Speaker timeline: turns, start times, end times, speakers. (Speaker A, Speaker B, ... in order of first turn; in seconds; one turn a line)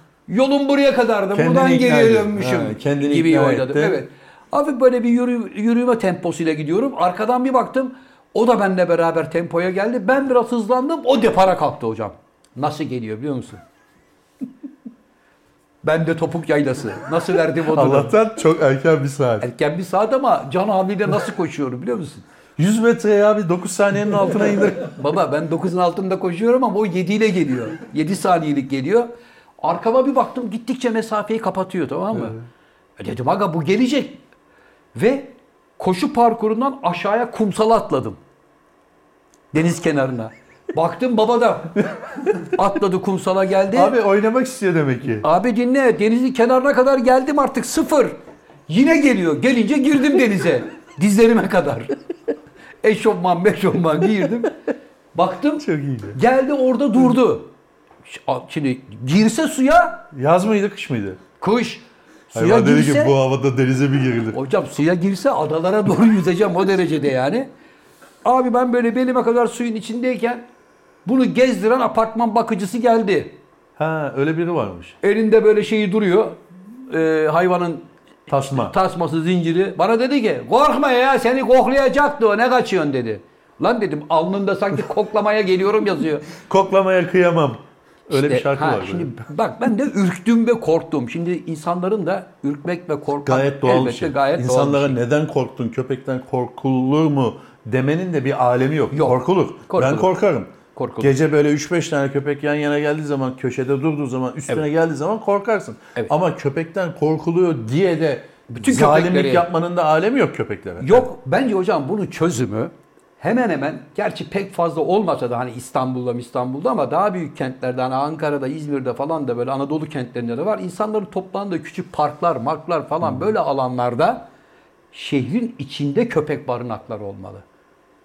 Speaker A: 0.3-13.6
Speaker B: 1.3-4.0
Speaker A: 15.8-18.1
Speaker B: 17.6-19.5
Speaker A: 19.4-22.2
Speaker B: 22.6-25.0
Speaker A: 24.8-32.4
Speaker B: 32.1-32.4
Speaker A: 33.0-34.2
Speaker A: 34.9-38.2
Speaker A: 39.5-43.9
Speaker B: 43.7-45.3
Speaker A: 45.2-48.2
Speaker A: 48.7-52.0
Speaker A: 52.8-54.5
Speaker A: 55.1-57.5
Speaker B: 55.6-56.2
Speaker A: 58.0-60.1
Speaker B: 60.1-61.2
Speaker A: 61.4-63.1
Speaker B: 62.3-64.4
Speaker A: 64.3-67.5
Speaker A: 68.2-70.4
Speaker A: 71.0-73.4
Speaker B: 73.8-75.0
Speaker A: 75.0-86.3
Speaker B: 78.3-78.7
Speaker B: 86.3-89.2
Speaker A: 88.1-95.0
Speaker B: 93.2-111.1
Speaker A: 98.9-100.1
Speaker A: 100.7-101.1
Speaker A: 108.5-109.5
Speaker A: 110.8-124.2
Speaker B: 123.0-123.3
Speaker A: 124.9-127.4